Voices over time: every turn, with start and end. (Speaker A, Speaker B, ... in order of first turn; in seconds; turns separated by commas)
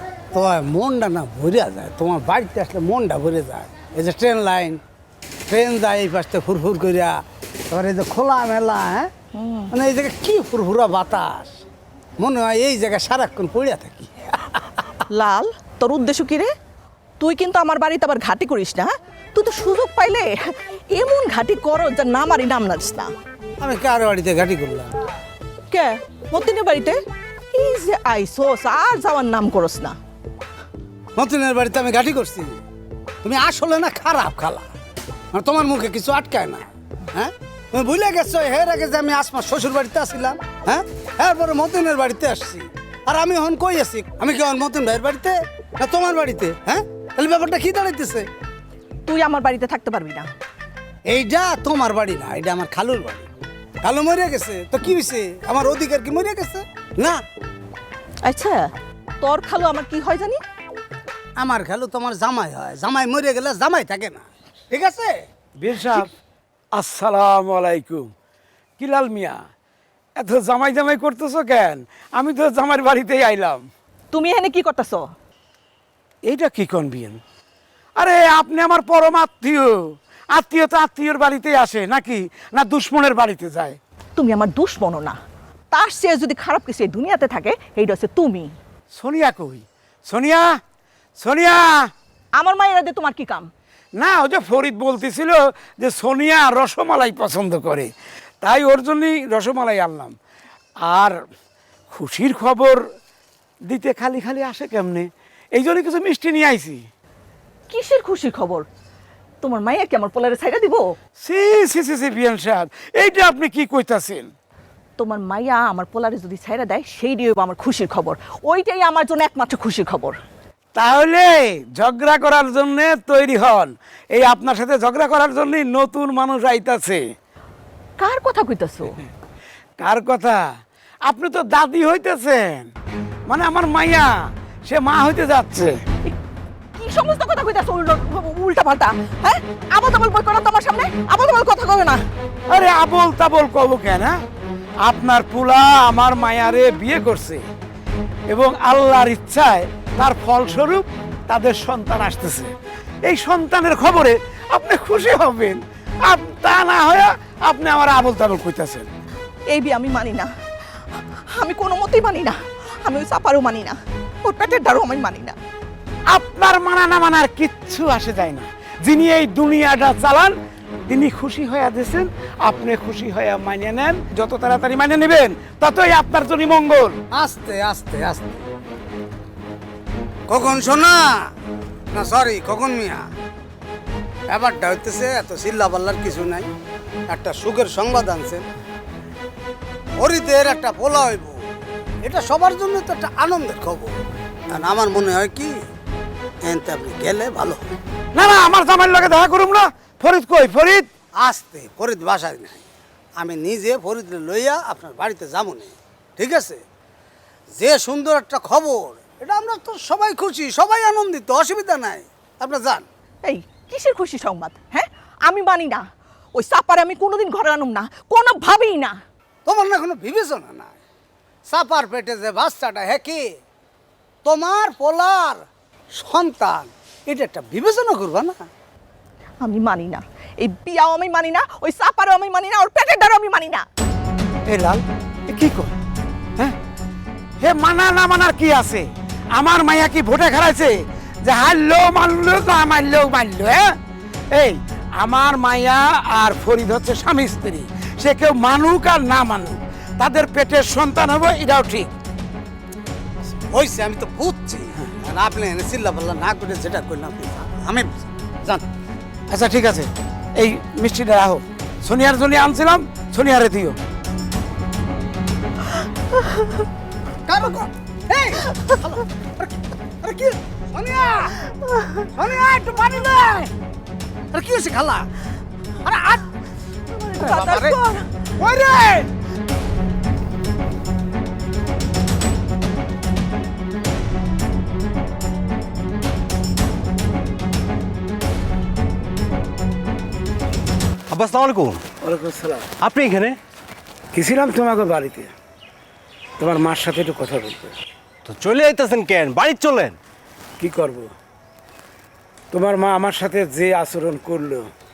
Speaker A: 0.3-4.8, Speaker A: 5.5-7.2, Speaker A: 7.7-9.1, Speaker B: 9.3-9.7, Speaker A: 9.7-11.6, Speaker A: 12.2-14.6, Speaker B: 15.1-16.5, Speaker B: 17.2-23.1, Speaker A: 23.6-24.9, Speaker B: 25.7-27.0, Speaker B: 27.5-29.9, Speaker A: 31.2-32.6, Speaker A: 33.2-34.7, Speaker A: 35.3-48.3, Speaker B: 49.1-50.3, Speaker A: 51.1-53.2, Speaker A: 53.8-57.2, Speaker B: 58.2-60.4, Speaker A: 61.4-65.2, Speaker C: 65.6-66.1, Speaker C: 66.8-68.1, Speaker C: 68.8-69.4, Speaker C: 70.2-73.7, Speaker B: 74.1-75.1, Speaker C: 76.3-77.2, Speaker C: 78.0-83.8, Speaker B: 84.2-85.2, Speaker B: 85.7-88.5, Speaker C: 88.9-90.6, Speaker C: 91.2-91.9, Speaker B: 92.4-93.5, Speaker C: 94.0-97.9, Speaker C: 98.4-100.1, Speaker C: 100.8-101.2, Speaker C: 101.9-102.8, Speaker C: 103.7-106.8, Speaker B: 107.7-108.7, Speaker B: 109.4-110.9, Speaker C: 111.2-114.3, Speaker B: 115.0-120.2, Speaker C: 120.8-127.0, Speaker B: 128.0-128.9, Speaker C: 129.8-130.4, Speaker C: 131.1-132.7, Speaker C: 133.3-134.1, Speaker C: 134.7-135.8, Speaker B: 136.8-142.0, Speaker C: 142.5-144.2, Speaker C: 144.8-147.4, Speaker C: 148.3-152.5, Speaker C: 153.1-158.9, Speaker B: 159.5-160.3, Speaker B: 161.4-165.4, Speaker C: 166.1-170.3, Speaker C: 170.9-177.0, Speaker A: 177.1-178.4, Speaker A: 180.3-181.2, Speaker A: 181.9-183.0, Speaker A: 184.3-186.5, Speaker A: 187.1-188.4, Speaker A: 190.0-191.4, Speaker A: 192.0-193.9, Speaker A: 194.5-195.5, Speaker A: 196.4-197.7, Speaker C: 198.1-200.9, Speaker A: 201.2-202.6, Speaker A: 203.2-206.6, Speaker A: 207.6-212.8, Speaker B: 213.2-219.0, Speaker A: 219.5-220.8, Speaker A: 221.5-223.2, Speaker A: 224.2-225.4, Speaker A: 226.0-228.4, Speaker B: 229.4-233.6, Speaker C: 234.5-235.8, Speaker C: 237.4-238.9, Speaker C: 239.4-243.7, Speaker C: 244.3-251.9, Speaker A: 253.3-258.6, Speaker C: 259.3-263.8, Speaker A: 267.3-269.5, Speaker A: 270.0-271.3, Speaker A: 272.1-273.5, Speaker A: 274.3-275.1, Speaker A: 275.8-276.2, Speaker B: 276.9-278.1, Speaker A: 277.2-277.8, Speaker A: 278.4-279.1, Speaker D: 291.1-291.8, Speaker C: 292.0-292.6, Speaker D: 292.8-293.4, Speaker C: 294.1-295.3, Speaker C: 296.4-297.7, Speaker D: 298.2-300.0, Speaker C: 300.6-301.1, Speaker C: 302.5-304.6